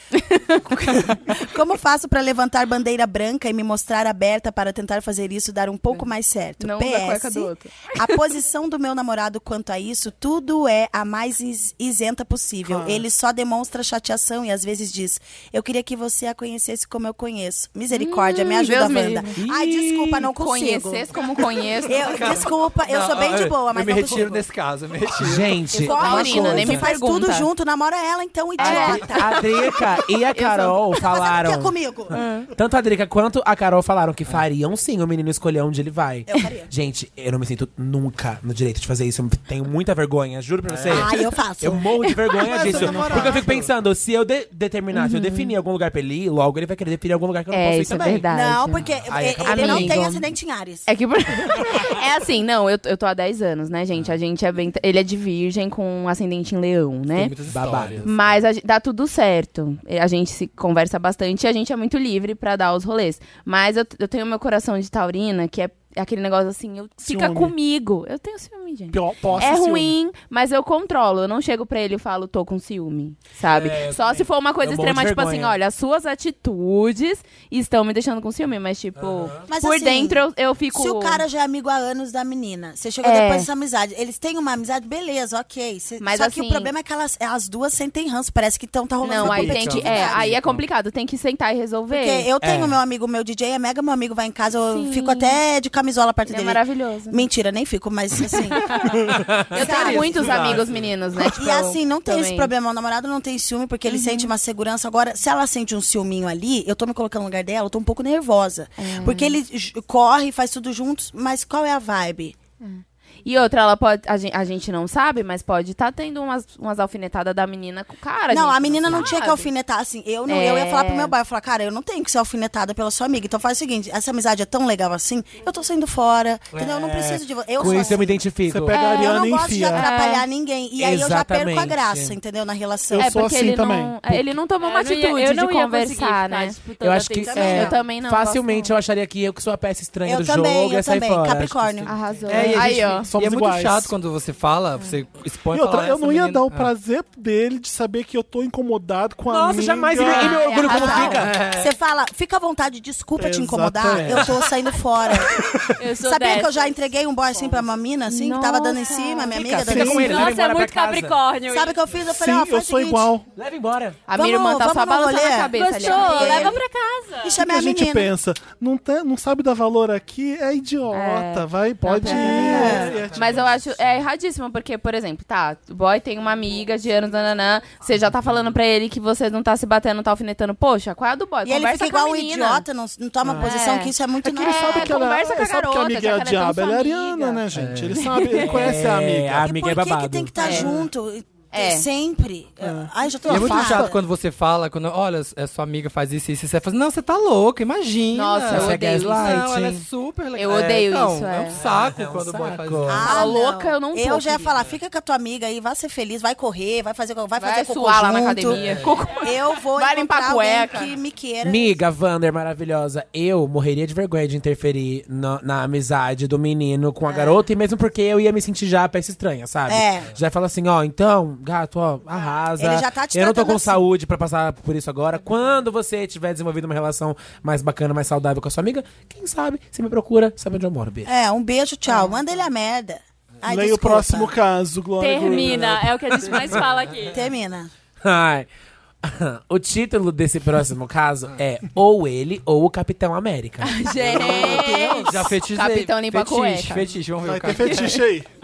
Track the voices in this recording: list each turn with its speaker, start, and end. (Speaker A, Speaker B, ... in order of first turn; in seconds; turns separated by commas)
Speaker A: 0.1-1.0, Speaker B: 0.7-21.1, Speaker A: 6.6-8.1, Speaker C: 12.6-13.0, Speaker A: 17.9-19.3, Speaker D: 19.4-20.3, Speaker A: 20.3-22.1, Speaker B: 21.8-24.4, Speaker E: 22.1-25.6, Speaker D: 25.2-26.9, Speaker A: 25.7-27.5, Speaker B: 25.8-29.5, Speaker A: 28.6-29.8, Speaker D: 28.6-48.2, Speaker A: 30.3-30.9, Speaker B: 31.0-32.2, Speaker A: 32.1-32.5, Speaker B: 36.3-36.7, Speaker E: 40.7-41.1, Speaker B: 40.9-41.9, Speaker A: 42.0-42.9, Speaker E: 42.5-43.7, Speaker C: 42.6-43.3, Speaker B: 42.8-43.2, Speaker A: 44.9-45.5, Speaker A: 47.5-48.8, Speaker B: 48.3-50.9, Speaker D: 49.1-50.0, Speaker A: 49.4-50.2, Speaker A: 50.9-57.3, Speaker E: 57.1-58.4, Speaker D: 57.5-58.1, Speaker A: 58.0-81.2, Speaker C: 67.0-67.5, Speaker C: 68.9-69.9, Speaker D: 73.5-75.5, Speaker D: 79.0-79.5, Speaker B: 79.5-90.3, Speaker A: 83.0-83.5, Speaker A: 86.0-86.7, Speaker A: 89.0-92.3, Speaker E: 89.2-90.6, Speaker B: 91.9-98.6, Speaker D: 92.4-92.8, Speaker A: 94.7-95.4, Speaker A: 96.2-97.2, Speaker A: 98.5-102.5, Speaker D: 99.1-99.5, Speaker E: 99.5-100.9, Speaker B: 99.6-100.6, Speaker B: 101.3-112.4, Speaker A: 103.9-104.3, Speaker A: 108.8-109.4, Speaker A: 112.6-119.5, Speaker B: 118.3-133.2, Speaker A: 120.3-121.1, Speaker D: 126.5-128.8, Speaker C: 128.5-129.9, Speaker A: 128.7-129.2, Speaker A: 129.7-130.2, Speaker D: 130.8-132.2, Speaker C: 132.9-134.3, Speaker A: 133.0-136.6, Speaker F: 134.6-137.7, Speaker D: 136.8-141.9, Speaker B: 137.3-137.8, Speaker A: 137.3-138.7, Speaker B: 140.0-141.9, Speaker A: 141.9-143.1, Speaker E: 142.3-146.7, Speaker C: 142.3-143.9, Speaker C: 145.5-151.1, Speaker D: 149.3-151.4, Speaker A: 150.0-151.2, Speaker B: 150.5-160.3, Speaker E: 151.1-151.7, Speaker C: 153.2-154.4, Speaker C: 155.2-155.7, Speaker F: 155.8-156.6, Speaker A: 158.1-159.7, Speaker D: 159.3-161.2, Speaker C: 159.7-160.0, Speaker F: 159.9-161.8, Speaker B: 161.5-163.1, Speaker C: 162.0-163.2, Speaker D: 163.3-164.0, Speaker A: 164.1-166.6, Speaker B: 164.1-166.6, Speaker F: 165.5-167.4, Speaker B: 167.2-168.1, Speaker C: 167.4-173.5, Speaker A: 170.9-182.6, Speaker B: 172.0-172.9, Speaker D: 172.7-173.0, Speaker B: 181.4-185.0, Speaker A: 183.3-187.4, Speaker C: 184.2-189.5, Speaker E: 187.5-188.1, Speaker A: 187.9-188.5, Speaker D: 188.3-190.6, Speaker B: 189.4-194.0, Speaker A: 190.4-190.7, Speaker C: 190.5-190.7, Speaker A: 191.5-191.9, Speaker C: 192.6-194.0, Speaker E: 193.3-203.2, Speaker A: 198.1-199.4, Speaker D: 198.5-199.8, Speaker A: 200.3-201.6, Speaker D: 201.5-203.1, Speaker B: 202.9-208.6, Speaker A: 203.0-204.5, Speaker A: 207.4-210.9, Speaker E: 208.5-209.0, Speaker B: 209.2-211.8, Speaker D: 211.4-231.1, Speaker B: 217.1-217.5, Speaker B: 219.7-220.1, Speaker B: 222.6-223.8, Speaker B: 231.0-234.3, Speaker C: 233.4-236.3, Speaker F: 235.0-237.2, Speaker B: 237.1-237.7, Speaker D: 238.0-238.5, Speaker D: 239.0-244.0, Speaker A: 243.6-246.8, Speaker B: 243.9-245.3, Speaker E: 244.2-248.0, Speaker C: 247.2-248.3, Speaker A: 247.6-248.0